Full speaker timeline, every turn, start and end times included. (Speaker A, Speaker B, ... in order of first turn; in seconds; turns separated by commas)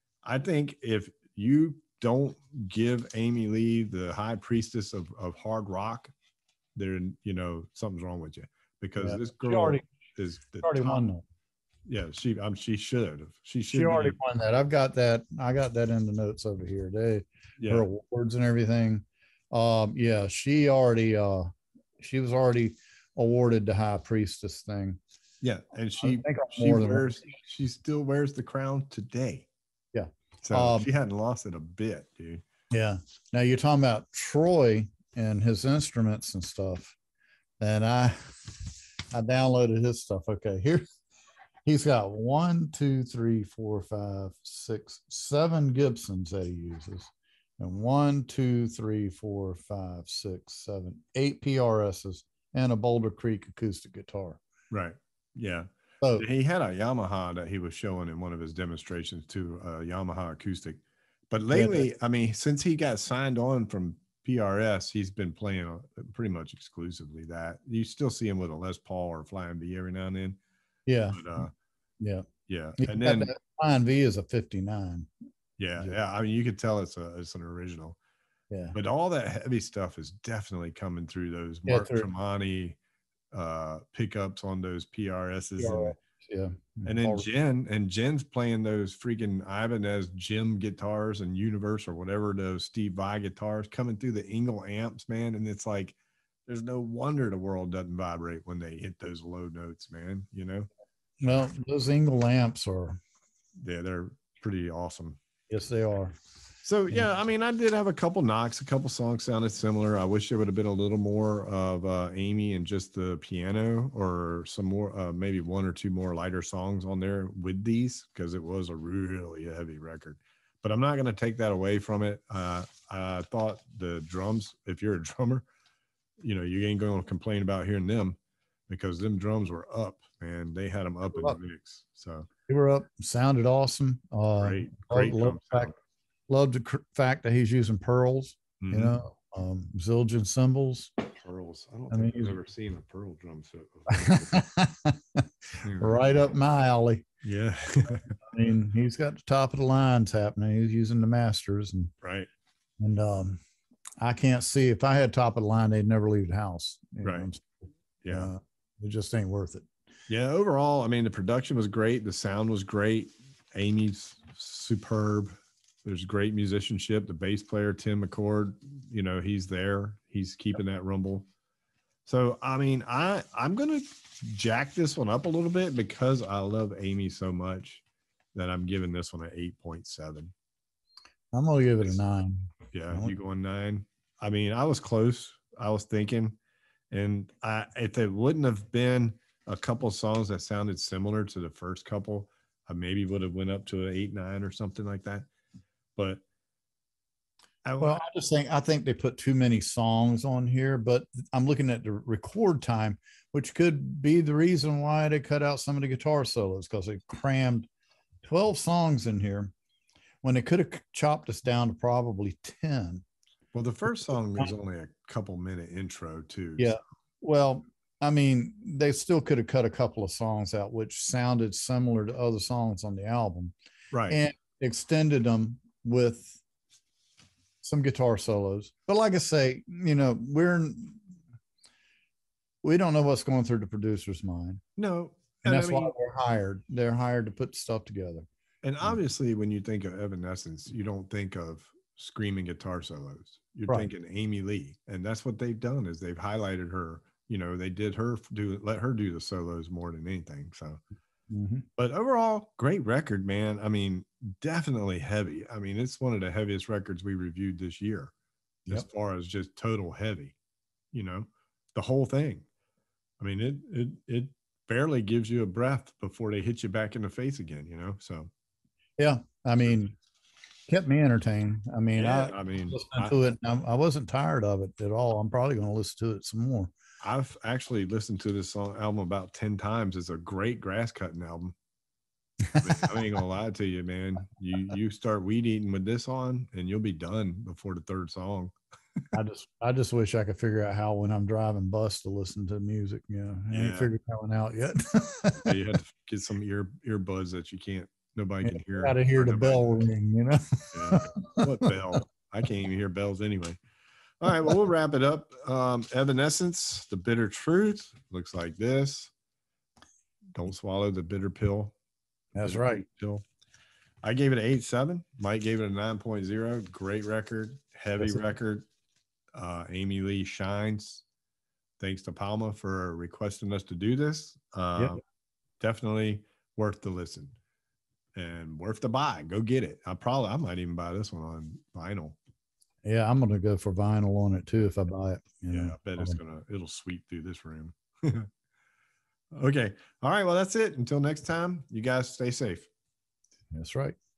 Speaker A: 0.2-6.1, Speaker A: 6.7-11.0, Speaker B: 9.0-9.8, Speaker B: 10.6-11.2, Speaker A: 11.9-14.2, Speaker B: 13.7-25.0, Speaker A: 25.4-29.5, Speaker B: 26.0-27.1, Speaker B: 29.9-30.9, Speaker A: 30.4-32.4, Speaker B: 32.7-37.0, Speaker B: 37.6-38.2, Speaker B: 39.1-40.8, Speaker B: 41.6-54.4, Speaker A: 54.7-70.4, Speaker B: 61.5-61.9, Speaker B: 70.9-71.4, Speaker A: 71.1-71.5, Speaker B: 72.0-72.3, Speaker A: 72.5-73.3, Speaker B: 72.8-75.1, Speaker A: 75.6-78.0, Speaker B: 78.5-78.8, Speaker A: 78.7-82.8, Speaker B: 81.7-82.1, Speaker A: 83.3-86.0, Speaker B: 85.6-87.2, Speaker A: 86.8-100.7, Speaker B: 101.2-103.0, Speaker A: 103.6-105.2, Speaker B: 105.5-106.1, Speaker A: 106.6-125.4, Speaker A: 126.2-128.2, Speaker A: 128.7-132.3, Speaker B: 131.1-131.4, Speaker B: 132.5-135.7, Speaker A: 134.4-135.8, Speaker B: 136.3-141.0, Speaker A: 138.6-139.0, Speaker A: 141.2-144.4, Speaker B: 141.9-142.4, Speaker B: 143.9-147.0, Speaker A: 145.6-146.0, Speaker A: 147.2-148.1, Speaker B: 148.2-151.9, Speaker A: 152.0-152.3, Speaker B: 152.8-153.4, Speaker B: 154.0-157.6, Speaker A: 157.0-157.3, Speaker A: 158.0-158.3, Speaker B: 158.1-159.7, Speaker A: 160.1-171.3, Speaker A: 172.1-177.8, Speaker A: 178.3-180.3, Speaker B: 181.3-183.1, Speaker A: 182.7-186.4, Speaker A: 186.9-195.3, Speaker A: 196.0-196.2, Speaker A: 197.6-198.0, Speaker B: 197.8-207.7, Speaker B: 208.2-209.5, Speaker B: 210.2-213.0, Speaker A: 213.5-216.8, Speaker B: 216.6-223.5, Speaker A: 223.9-224.2, Speaker B: 224.1-226.4, Speaker B: 227.6-231.0, Speaker B: 232.6-234.6, Speaker A: 234.8-235.9, Speaker B: 235.4-238.2, Speaker A: 238.6-250.8, Speaker B: 251.3-251.7, Speaker A: 251.8-258.1, Speaker A: 258.6-260.3, Speaker A: 260.9-262.4, Speaker A: 263.2-268.3, Speaker B: 269.0-269.9, Speaker B: 270.7-276.7, Speaker A: 272.0-273.1, Speaker A: 277.0-281.5, Speaker B: 282.4-282.9, Speaker A: 282.6-288.5, Speaker B: 289.1-295.5, Speaker A: 293.5-293.9, Speaker A: 295.4-299.8, Speaker B: 298.4-302.0, Speaker A: 300.7-303.6, Speaker A: 304.2-309.1, Speaker A: 310.3-311.7, Speaker B: 312.3-312.8, Speaker A: 312.3-313.2, Speaker A: 314.0-318.7, Speaker A: 319.3-321.0, Speaker A: 321.8-325.0, Speaker A: 325.6-327.3, Speaker A: 328.1-332.2, Speaker B: 332.8-336.2, Speaker A: 335.5-338.3, Speaker A: 339.3-342.7, Speaker B: 343.5-344.0